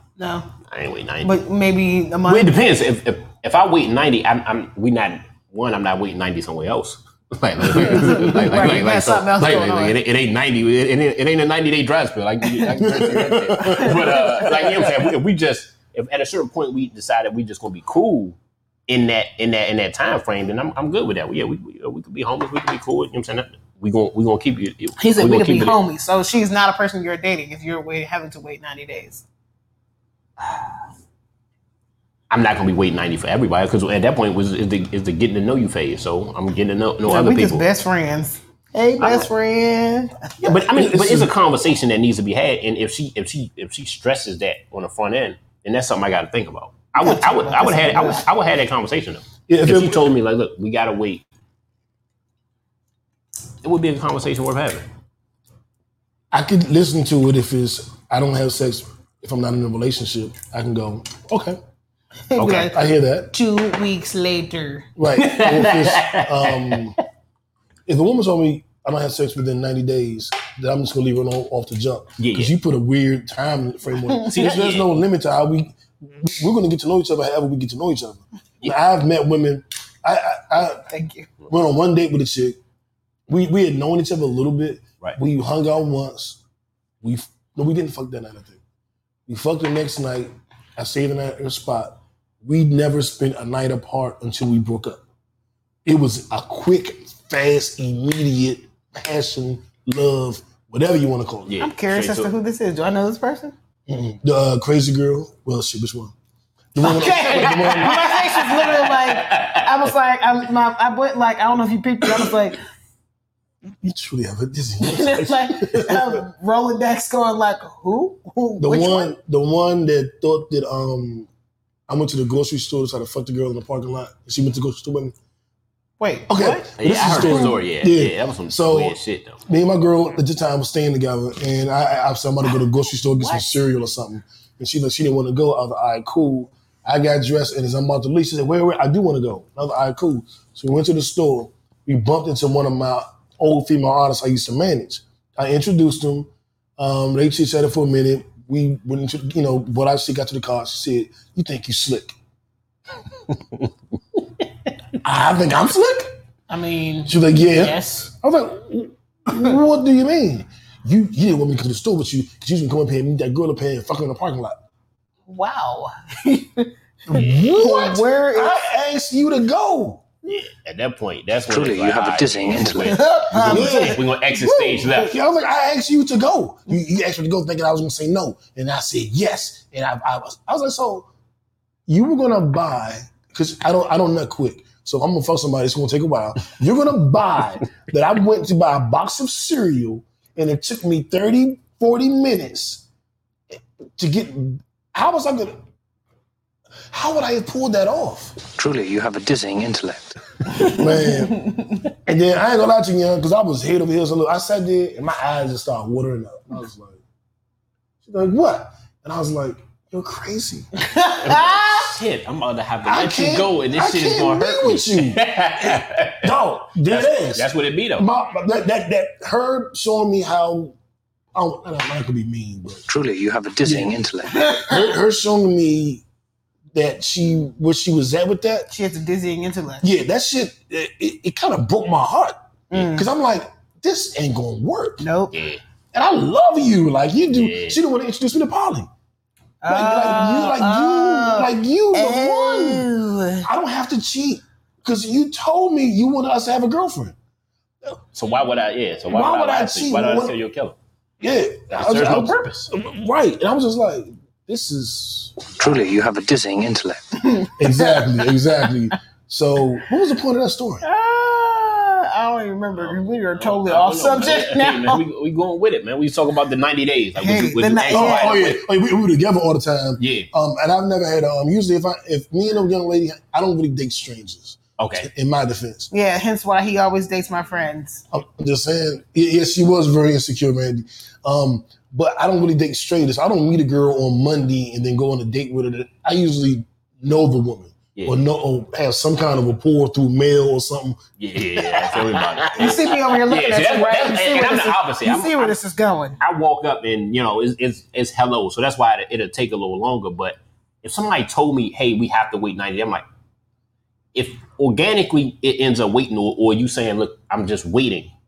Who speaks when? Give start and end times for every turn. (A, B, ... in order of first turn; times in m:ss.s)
0:00.2-0:00.5 A
0:00.7-0:01.3 B
0:01.2-0:02.5 A
0:02.3-0:18.4 B
0:07.7-0:10.0 A
0:12.6-0:14.2 C
0:13.7-0:14.8 A
0:18.9-0:25.8 B
0:25.0-0:29.2 A
0:32.3-0:37.6 B
0:37.0-0:40.3 A
0:39.0-0:39.3 B
0:40.4-0:51.2 B
0:40.7-0:41.3 C
0:47.0-0:48.3 A
0:49.5-0:50.1 C
0:53.6-0:54.8 B
0:56.3-1:01.6 C
1:02.3-1:02.8 A
1:02.4-1:02.7 B
1:02.6-1:03.3 C
1:03.3-1:04.9 A
1:05.0-1:07.0 C
1:05.2-1:06.8 B
1:07.9-1:20.8 C
1:12.2-1:12.5 B
1:14.2-1:14.9 B
1:20.9-1:21.3 A
1:21.5-1:22.6 C
1:23.3-1:26.4 C
1:27.0-1:28.6 C
1:29.3-1:35.0 C
1:35.8-1:41.5 C
1:41.5-1:42.3 B
1:41.6-1:43.5 A
1:43.9-1:46.1 C
1:46.7-1:48.1 C
1:46.8-1:52.6 A
1:47.2-1:49.6 B
1:53.8-1:56.2 C
1:54.8-1:59.1 A
1:58.6-2:01.3 C
2:01.9-2:05.1 C
2:06.0-2:07.6 A
2:06.3-2:32.1 C
2:06.8-2:09.4 B
2:13.2-2:13.5 A
2:35.0-2:36.2 C
2:36.5-2:38.1 A
2:37.0-2:44.6 C
2:45.3-2:48.6 A
2:47.1-2:50.0 C
2:50.2-2:55.1 B
2:51.4-2:53.0 D
2:52.9-2:54.9 A
2:53.3-2:54.0 C
2:54.8-3:01.1 C
3:01.9-3:12.8 C
3:13.5-3:15.6 C
3:16.9-3:18.4 C
3:18.6-3:20.2 D
3:20.6-3:21.5 C
3:21.3-3:21.8 A
3:22.0-3:27.0 C
3:28.0-3:30.7 C
3:30.8-3:31.9 A
3:31.2-3:36.3 B
3:32.8-3:40.7 C
3:36.8-3:38.1 B
3:41.3-3:42.8 C
3:42.9-3:44.4 D
3:43.6-3:44.0 C
3:44.4-3:44.7 A
3:44.6-3:46.0 C
3:46.7-3:48.7 C
3:48.7-3:49.9 A
3:49.8-3:55.0 C
3:52.7-3:53.1 A
3:55.0-3:55.3 A
3:55.3-3:55.6 B
3:55.9-3:58.9 C
3:57.3-3:57.8 B
3:59.6-4:03.5 A
3:59.7-4:02.9 C
4:03.4-4:07.2 C
4:08.1-4:10.8 B
4:09.1-4:10.3 C
4:11.2-4:15.7 C
4:11.7-4:12.7 B
4:15.6-4:17.0 D
4:17.2-4:18.2 A
4:17.6-4:20.8 C
4:20.8-4:25.0 A
4:22.7-4:28.6 B
4:27.1-4:28.5 A
4:27.9-4:35.9 C
4:30.0-4:30.3 B
4:34.8-4:35.1 B
4:35.9-4:38.0 A
4:38.1-4:51.0 C
4:48.0-4:48.2 B
4:51.2-4:55.6 B
4:52.4-4:56.2 A
4:56.2-5:03.0 B
5:04.1-5:08.1 B